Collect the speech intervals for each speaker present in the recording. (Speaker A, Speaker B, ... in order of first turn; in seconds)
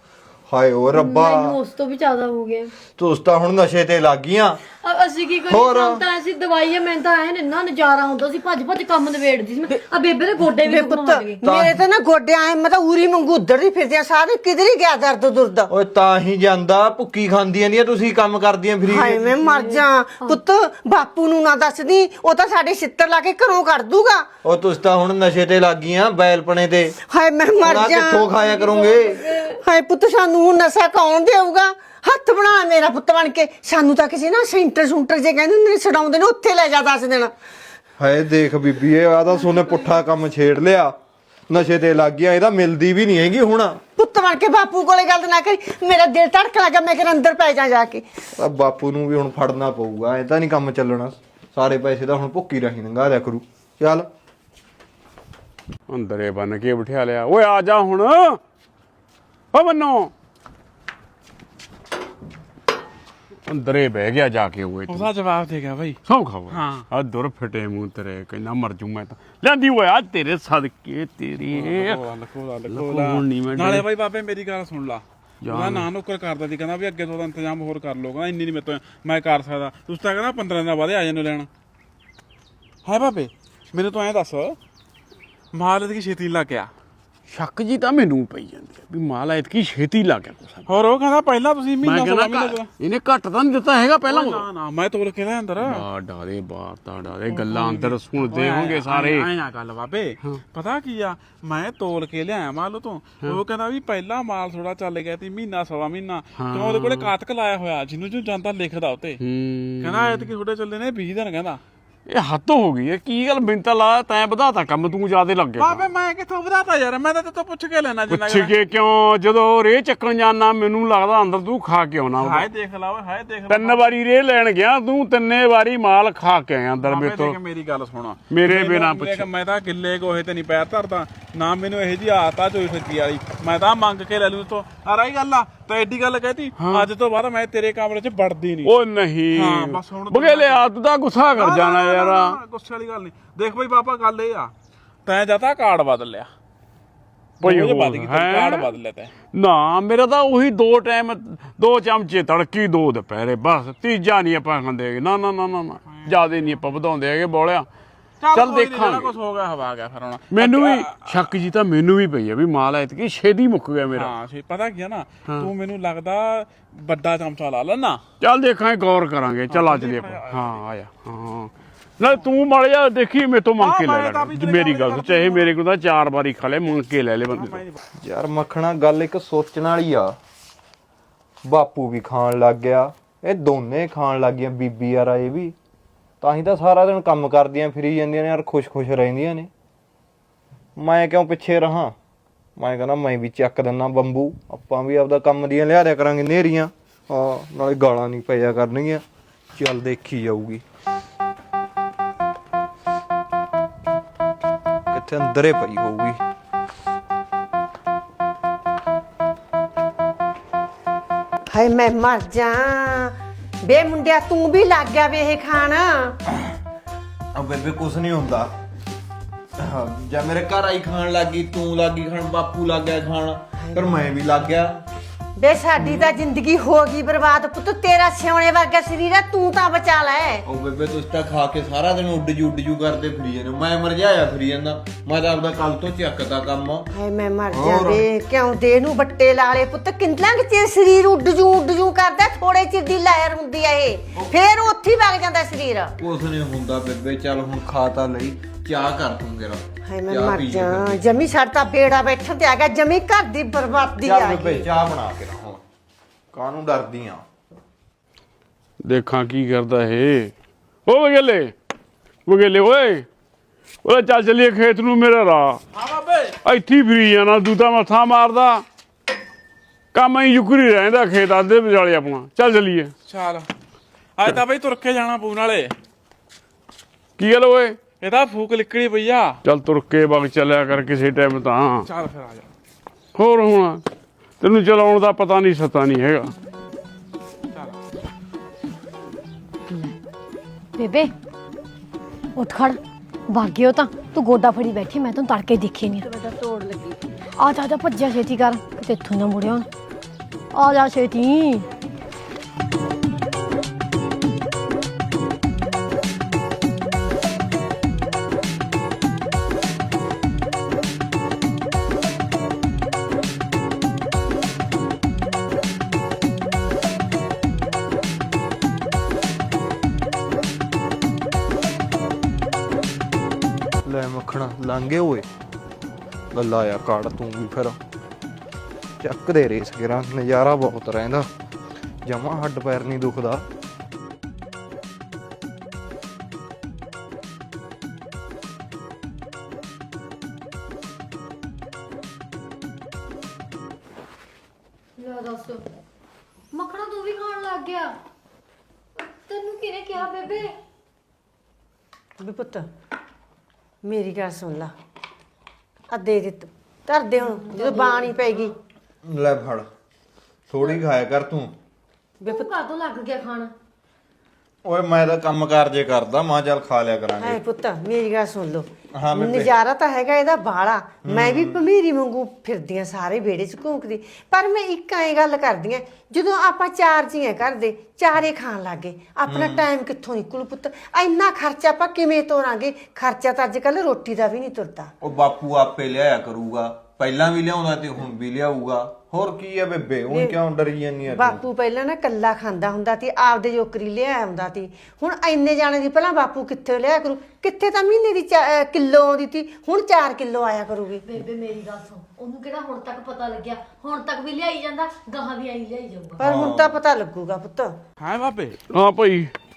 Speaker A: 0.5-1.6, 3.0-4.6, 5.5-6.0, 11.4-11.8, 15.7-19.4, 24.4-27.0, 27.6-29.3, 38.0-41.0, 41.5-43.8, 48.4-54.1, 178.0-180.2, 181.4-185.6, 186.2-189.5, 190.8-191.9, 192.6-199.0, 199.5-200.6, 204.9-206.2, 217.3-218.5, 219.6-224.8, 225.8-226.1, 230.5-236.9, 237.5-238.1, 246.0-251.1, 254.0-255.6, 256.3-257.2, 323.9-325.3, 326.3-327.8, 329.0-331.3, 332.0-333.4, 359.0-359.7, 360.5-361.6, 364.6-367.4, 368.9-369.5, 371.0-371.6, 379.3-379.7, 385.0-391.4, 406.2-406.8
Speaker B: 0.9-2.7, 4.8-11.4, 19.4-20.4, 28.4-29.6, 289.7-289.9, 290.8-291.1, 292.4-296.1, 297.4-299.7, 300.5-301.7, 345.0-345.6, 346.5-348.0, 349.0-350.6, 357.3-358.1, 362.2-363.5, 401.1-406.2
Speaker C: 10.6-15.7, 18.9-24.3, 27.0-28.3, 29.4-37.3, 44.0-48.1, 211.5-216.2, 223.6-224.0, 225.4-230.5, 236.9-246.0, 249.8-254.7, 296.0-297.0, 352.2-352.7, 353.8-354.7, 355.9-358.5, 362.2-362.5, 367.2-384.9, 390.1-390.4, 391.1-401.1, 406.2-407.8
Speaker D: 55.9-58.4, 59.5-60.1, 63.5-65.1, 66.1-72.0, 72.7-73.9, 75.4-75.9, 87.3-90.6, 91.8-94.5, 95.6-99.3, 106.4-107.1, 109.2-110.3, 112.1-115.8, 118.1-122.5, 123.5-127.4, 128.3-129.3, 136.6-136.9, 138.7-142.4, 147.4-148.7, 149.3-157.7, 158.3-159.1, 160.3-164.1, 168.2-177.6, 258.8-260.3, 260.9-261.5, 262.3-263.1, 263.8-265.6, 266.4-268.6, 269.9-272.9, 277.2-277.8, 279.4-281.9, 283.2-283.8, 284.4-286.3, 408.7-409.3
Speaker E: 64.9-66.0, 66.5-66.9, 71.5-81.5, 82.8-84.6, 85.5-86.7, 90.7-92.7, 94.1-95.8, 97.3-109.2, 109.8-111.6, 115.6-118.5, 122.2-123.8, 126.8-138.7, 139.3-140.7, 141.4-144.5, 145.1-146.3, 147.4-149.1, 155.9-156.2, 158.2-161.3, 163.9-168.0, 169.5-170.6, 173.6-175.5, 177.3-177.8, 265.7-266.4, 273.1-273.5, 274.2-275.8, 278.0-279.4, 281.9-282.5, 287.5-287.8, 408.0-408.6